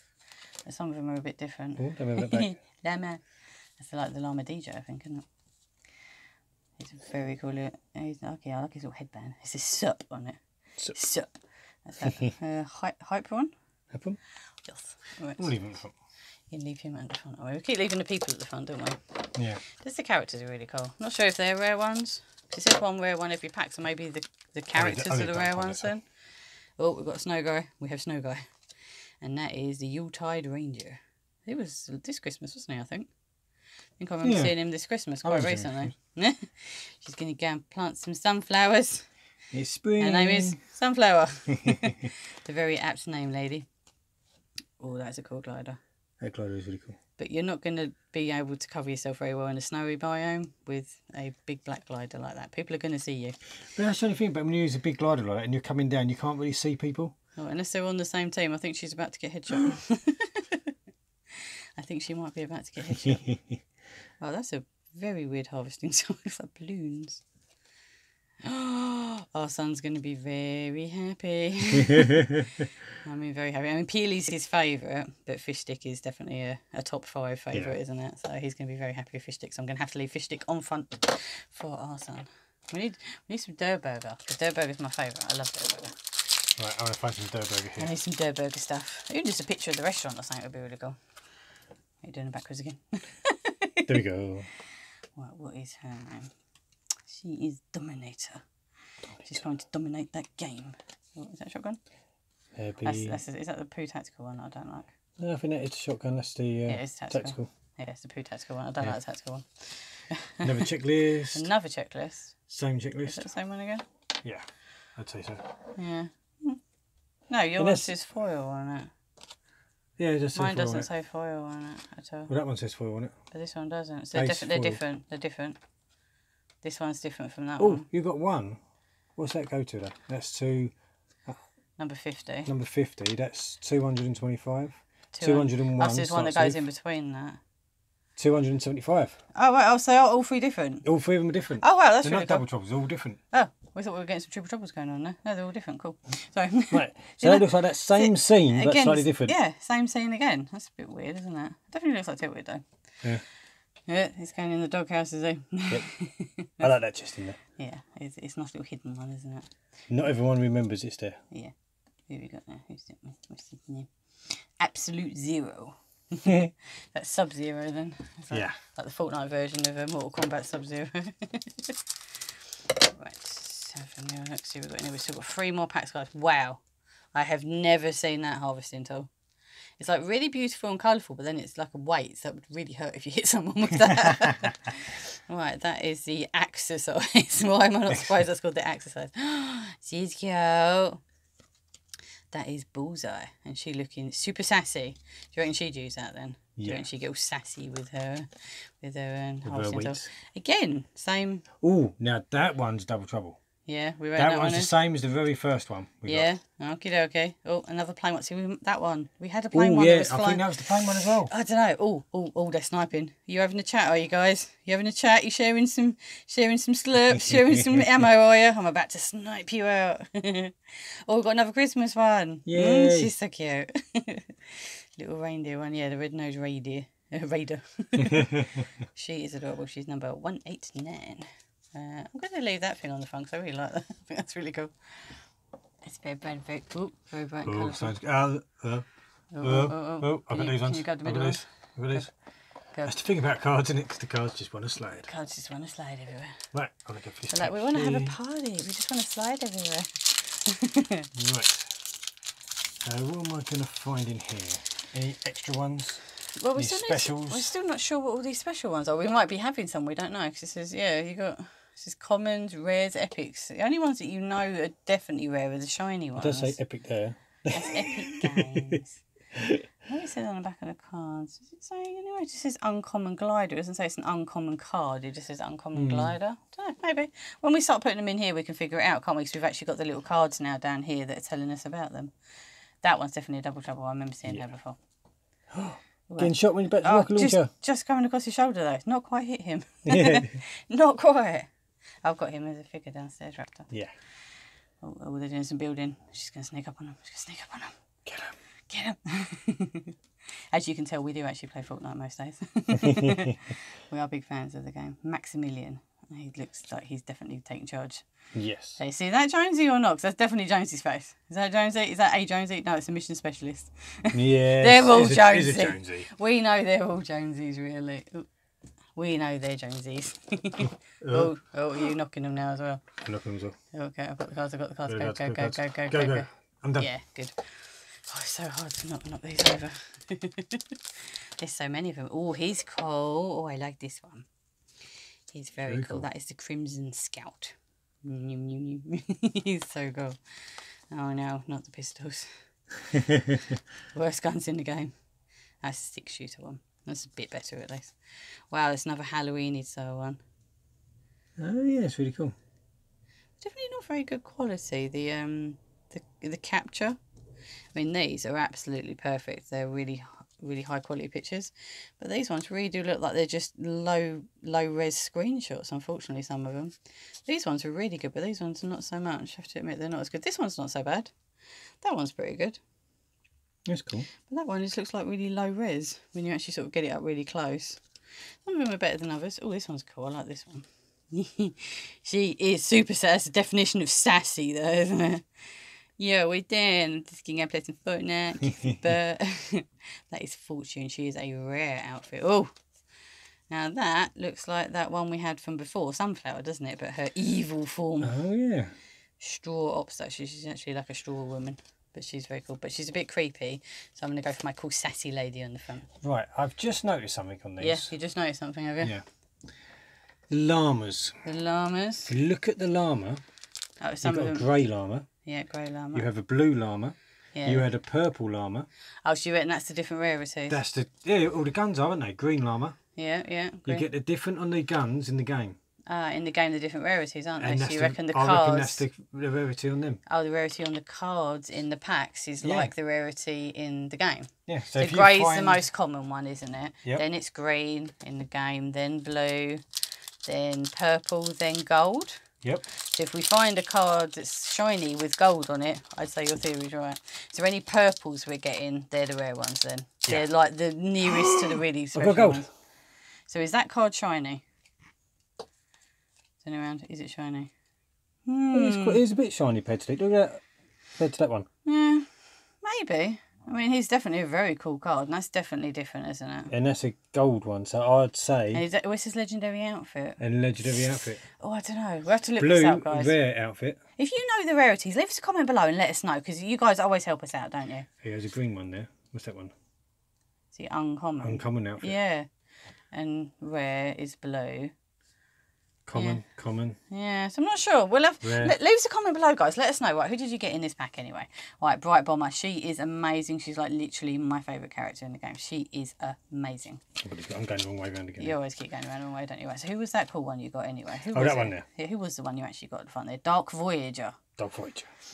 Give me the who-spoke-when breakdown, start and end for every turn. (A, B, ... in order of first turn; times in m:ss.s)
0:00.6-0:03.2 A
0:01.8-0:02.5 B
0:03.8-0:05.2 A
0:06.8-0:10.4 A
0:10.9-0:11.3 A
0:11.8-0:13.5 A
0:13.9-0:14.2 B
0:14.7-0:15.5 A
0:15.4-0:15.9 B
0:16.5-0:26.0 A
0:19.4-0:19.6 B
0:24.7-0:25.9 B
0:26.8-0:28.4 A
0:29.2-0:33.1 A
0:34.0-0:39.1 A
0:34.2-0:34.5 B
0:35.2-0:35.9 B
0:39.5-0:40.6 B
0:40.0-0:43.6 A
0:41.5-0:41.9 B
0:44.8-0:45.8 A
0:46.2-0:47.0 B
0:47.2-0:53.4 A
0:53.8-0:57.1 B
0:57.4-1:00.7 A
1:01.3-1:03.3 A
1:03.0-1:03.6 B
1:04.2-1:07.2 A
1:08.4-1:12.3 A
1:13.0-1:26.0 A
1:26.6-1:27.9 B
1:27.8-1:31.0 A
1:32.0-1:33.9 A
1:33.9-1:34.5 B
1:35.2-1:36.3 A
1:37.0-1:38.4 A
1:39.1-1:39.4 B
1:39.2-1:41.8 A
1:42.6-1:43.2 B
1:42.8-1:44.9 A
1:45.2-1:47.5 B
1:46.7-1:50.6 A
1:50.4-1:51.5 B
1:51.3-1:52.3 A
1:52.5-1:53.2 B
1:53.0-1:53.8 A
1:54.2-1:55.5 B
1:55.8-1:56.6 A
1:57.3-1:58.9 A
1:57.6-1:57.9 B
2:00.0-2:00.9 B
2:00.3-2:02.3 A
2:02.3-2:03.1 B
2:03.3-2:05.6 A
2:04.1-2:04.8 B
2:06.6-2:07.9 A
2:07.6-2:08.6 B
2:09.2-2:10.7 B
2:11.8-2:12.5 A
2:12.5-2:16.6 B
2:15.1-2:17.4 A
2:18.2-2:19.2 B
2:19.3-2:20.8 A
2:20.8-2:23.2 B
2:21.6-2:22.4 A
2:23.3-2:32.6 A
2:26.7-2:29.4 B
2:33.9-2:36.6 A
2:36.6-2:37.4 B
2:37.6-2:39.5 A
2:39.9-2:41.2 B
2:42.1-2:51.8 A
2:46.2-2:46.5 B
2:48.3-2:48.6 B
2:52.7-2:56.6 A
2:57.1-2:59.1 A
2:59.8-3:11.0 A
3:12.3-3:21.4 A
3:16.6-3:16.8 B
3:19.4-3:20.1 B
3:21.6-3:23.4 B
3:23.6-3:24.7 A
3:24.2-3:26.3 B
3:26.0-3:55.1 A
3:29.5-3:31.3 B
3:37.3-3:37.8 B
3:42.4-3:43.1 B
3:48.0-3:48.6 B
3:55.8-3:57.9 A
3:57.4-3:58.8 B
3:59.3-4:02.1 A
3:59.4-4:02.1 B
4:02.8-4:05.1 B
4:05.0-4:06.4 A
4:06.5-4:08.2 B
4:07.3-4:11.1 A
4:11.2-4:11.7 B
4:12.8-4:16.0 B
4:16.4-4:26.6 A
4:16.5-4:17.5 B
4:26.2-4:28.8 B
4:27.5-4:29.0 A
4:29.3-4:29.6 B
4:29.8-4:42.1 A
4:35.7-4:36.2 B
4:42.8-4:44.8 A
4:45.5-4:47.5 B
4:46.1-4:51.5 A
4:49.8-4:50.3 B
4:52.0-4:53.7 A
4:54.8-4:57.7 A
4:58.0-4:58.4 B
4:58.7-4:59.9 A
5:00.5-5:08.0 A
5:02.7-5:03.3 B
5:08.3-5:08.8 B
5:08.8-5:18.3 A
5:14.1-5:16.1 B
5:19.0-5:22.8 A
5:21.0-5:21.3 B
5:23.0-5:23.5 B
5:23.7-5:34.3 A
5:24.9-5:26.9 B
5:35.3-5:42.4 A
5:35.6-5:36.1 B
5:42.9-5:43.6 B
5:43.9-5:44.9 A
5:45.6-5:47.9 A
5:48.5-5:50.2 A
5:51.4-5:52.3 B
5:53.4-5:57.0 A
5:57.7-6:06.7 A
6:07.2-6:11.1 A
6:11.8-6:12.6 A
6:13.7-6:14.1 B
6:14.3-6:17.8 A
6:18.4-6:32.5 A
6:33.5-6:38.1 A
6:38.0-6:38.7 B
6:39.2-6:45.9 A
6:46.0-6:47.9 B
6:47.6-6:48.9 A
6:50.3-6:51.2 B
6:51.2-6:52.1 A
6:52.1-6:53.2 B
6:53.8-6:54.5 A
6:54.0-6:55.1 B
6:55.2-6:56.0 A
6:55.9-6:58.7 B
6:57.3-6:57.6 A
6:59.0-7:00.6 A
7:00.5-7:02.8 B
7:03.0-7:03.8 A
7:03.6-7:05.6 B
7:05.9-7:08.8 A
7:07.4-7:10.0 B
7:10.1-7:19.6 A
7:12.4-7:12.7 B
7:14.5-7:15.6 B
7:20.2-7:22.2 A
7:22.7-7:32.5 A
7:31.3-7:32.4 B
7:33.3-7:34.4 A
7:36.4-7:37.5 A
7:38.2-7:39.0 A
7:38.5-7:40.4 B
7:41.0-7:41.5 B
7:41.6-7:42.1 A
7:42.6-7:46.5 A
7:46.5-7:48.6 B
7:48.5-7:50.2 A
7:50.2-7:51.2 B
7:51.4-7:53.1 A
7:52.4-7:53.8 B
7:54.0-7:57.8 A
7:58.0-7:59.5 B
8:00.5-8:02.3 A
8:01.2-8:02.0 B
8:02.9-8:04.7 A
8:05.8-8:06.8 B
8:05.9-8:06.2 A
8:06.9-8:16.8 A
8:08.2-8:08.6 B
8:17.0-8:18.4 B
8:18.2-8:24.2 A
8:21.1-8:21.6 B
8:24.4-8:24.9 B